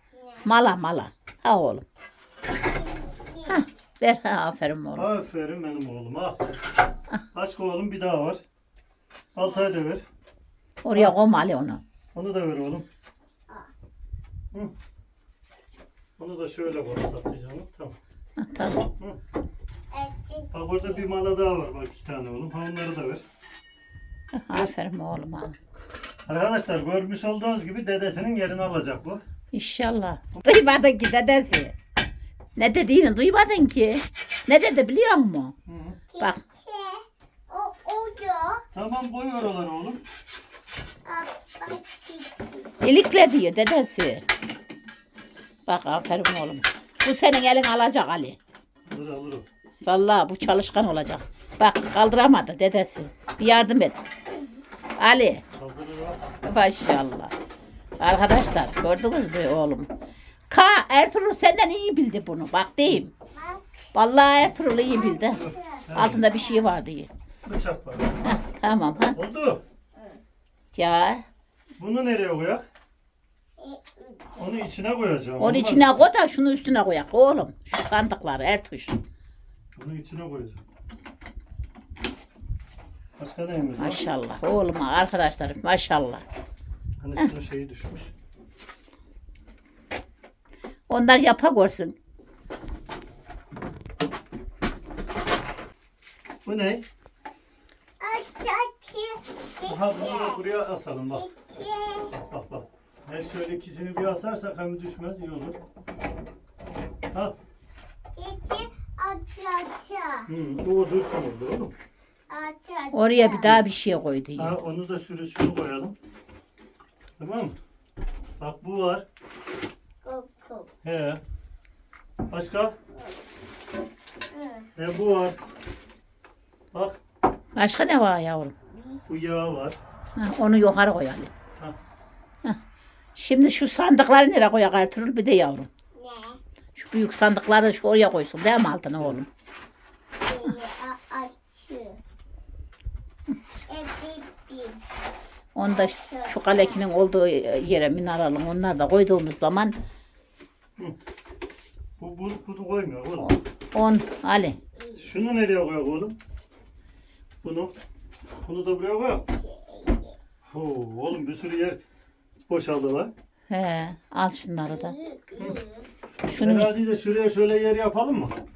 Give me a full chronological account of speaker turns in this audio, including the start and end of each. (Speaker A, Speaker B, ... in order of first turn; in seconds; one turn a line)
Speaker A: 0.4-1.9
Speaker B: 2.7-3.6
Speaker A: 3.5-5.1
Speaker C: 5.0-6.5
Speaker C: 7.3-8.4
Speaker C: 9.3-10.1
Speaker A: 10.8-11.8
Speaker C: 12.1-12.9
Speaker C: 16.2-18.0
Speaker A: 18.4-18.9
Speaker B: 19.9-21.0
Speaker C: 20.5-23.2
Speaker A: 24.4-25.6
Speaker C: 26.3-29.2
Speaker A: 29.5-31.7
Speaker A: 32.6-35.5
Speaker C: 35.7-36.0
Speaker B: 36.1-38.6
Speaker C: 38.7-40.0
Speaker B: 41.1-42.7
Speaker A: 42.8-44.2
Speaker A: 45.7-48.4
Speaker C: 48.9-49.5
Speaker A: 49.9-54.0
Speaker A: 55.0-55.4
Speaker C: 55.6-56.2
Speaker A: 56.4-57.3
Speaker A: 58.0-59.9
Speaker A: 60.5-63.1
Speaker B: 63.3-63.6
Speaker A: 63.9-65.4
Speaker B: 64.9-65.9
Speaker C: 65.3-66.3
Speaker A: 66.0-67.1
Speaker B: 66.4-66.6
Speaker C: 67.5-68.4
Speaker A: 68.2-69.2
Speaker C: 69.2-69.6
Speaker A: 70.7-71.2
Speaker C: 71.8-72.7
Speaker B: 73.6-74.3
Speaker C: 74.4-76.0
Speaker A: 75.4-79.0
Speaker C: 79.8-80.6
Speaker C: 83.2-84.0
Speaker A: 83.8-86.2
Speaker C: 87.0-88.1
Speaker A: 90.9-92.0
Speaker C: 96.4-96.9
Speaker B: 98.0-100.4
Speaker C: 99.7-101.3
Speaker B: 101.1-102.1
Speaker C: 102.1-105.6
Speaker B: 108.1-110.3
Speaker C: 110.3-111.8
Speaker B: 112.3-113.5
Speaker A: 112.9-114.5
Speaker C: 114.4-116.0
Speaker C: 117.2-117.6
Speaker C: 118.4-119.1
Speaker B: 120.0-120.7
Speaker C: 120.8-121.2
Speaker C: 122.3-122.8
Speaker B: 124.3-124.7
Speaker C: 124.8-125.4
Speaker C: 126.7-127.0
Speaker A: 127.6-128.5
Speaker C: 129.1-129.8
Speaker A: 130.2-131.3
Speaker A: 133.2-135.7
Speaker B: 136.0-136.4
Speaker A: 136.8-139.3
Speaker B: 140.2-142.0
Speaker B: 143.7-144.8
Speaker A: 145.6-149.8
Speaker B: 145.7-146.8
Speaker C: 152.0-153.3
Speaker A: 153.2-154.6
Speaker B: 154.8-155.1
Speaker C: 154.9-156.2
Speaker C: 157.4-157.7
Speaker C: 158.4-159.3
Speaker B: 159.3-160.2
Speaker C: 160.5-161.8
Speaker C: 162.5-163.1
Speaker A: 163.5-165.0
Speaker B: 164.7-165.9
Speaker A: 166.3-166.8
Speaker C: 166.3-168.4